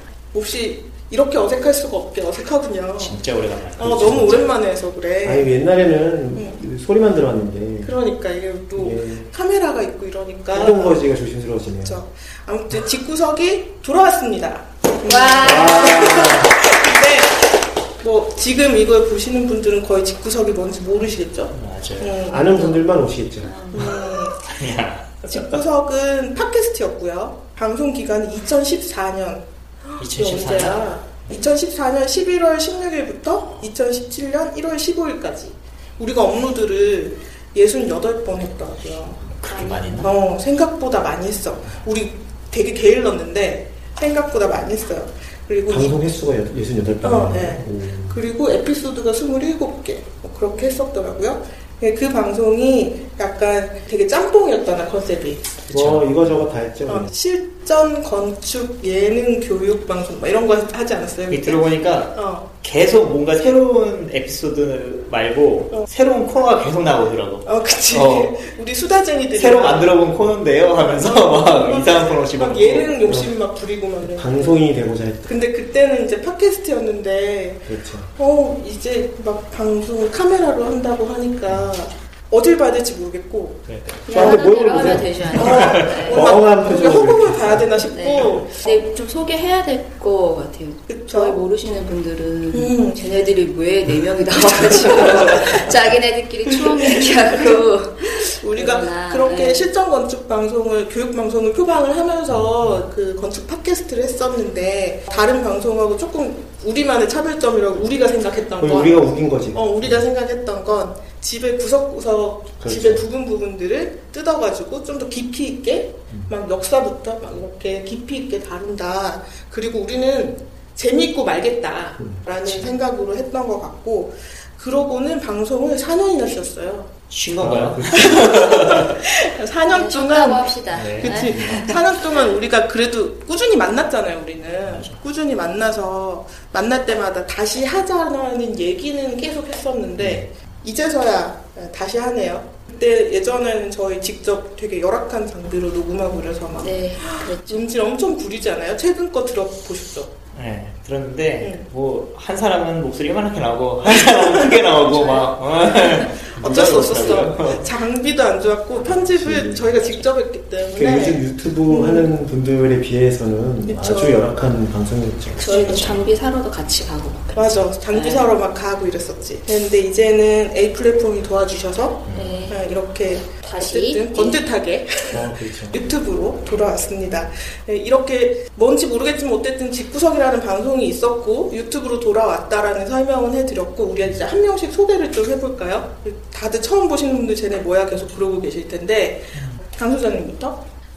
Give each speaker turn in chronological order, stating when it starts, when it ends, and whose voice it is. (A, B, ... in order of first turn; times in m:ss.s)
0:00.3-0:03.2 A
0:03.0-0:04.4 B
0:03.8-0:05.5 A
0:03.9-0:04.4 C
0:05.2-0:08.0 C
0:06.3-0:06.6 A
0:07.8-0:11.0 A
0:08.8-0:09.3 C
0:10.5-0:12.0 C
0:11.8-0:22.8 A
0:15.0-0:16.3 D
0:15.4-0:16.5 C
0:21.5-0:22.1 B
0:22.2-0:23.5 C
0:23.4-0:23.9 D
0:23.7-0:24.4 A
0:24.2-0:25.5 B
0:25.2-0:39.2 A
0:30.0-0:31.0 B
0:39.3-0:40.1 B
0:39.4-0:40.1 D
0:40.0-0:46.1 A
0:45.7-0:48.2 C
0:47.0-0:55.5 A
0:55.7-0:56.4 B
0:55.7-0:57.1 C
0:56.8-1:02.5 A
1:01.3-1:08.4 B
1:07.4-1:10.0 A
1:09.3-1:12.9 B
1:10.8-1:14.6 A
1:13.0-1:13.3 C
1:14.0-1:15.3 C
1:15.3-1:28.8 A
1:17.7-1:18.1 C
1:23.7-1:24.1 B
1:24.1-1:26.4 D
1:24.1-1:28.2 C
1:25.3-1:26.0 B
1:27.9-1:39.7 D
1:30.9-1:31.4 A
1:32.5-1:33.1 A
1:38.2-2:06.9 A
1:42.3-1:42.8 C
1:48.6-1:50.0 C
1:52.6-1:53.0 C
2:02.0-2:02.2 C
2:07.1-2:09.0 B
2:07.4-2:08.3 C
2:08.0-2:30.1 A
2:09.6-2:11.8 D
2:10.7-2:11.3 B
2:14.6-2:15.0 B
2:20.0-2:20.3 B
2:26.6-2:27.7 D
2:30.3-2:37.7 B
2:31.4-2:31.7 A
2:33.9-2:42.1 A
2:38.8-2:39.8 C
2:40.7-2:45.5 C
2:43.6-2:44.3 A
2:45.4-2:48.3 D
2:45.4-2:45.8 A
2:45.5-2:46.0 B
2:47.3-3:10.6 A
2:52.1-2:52.4 B
2:52.1-2:52.6 D
2:53.4-2:54.4 D
2:55.1-2:55.8 C
3:09.3-3:09.6 B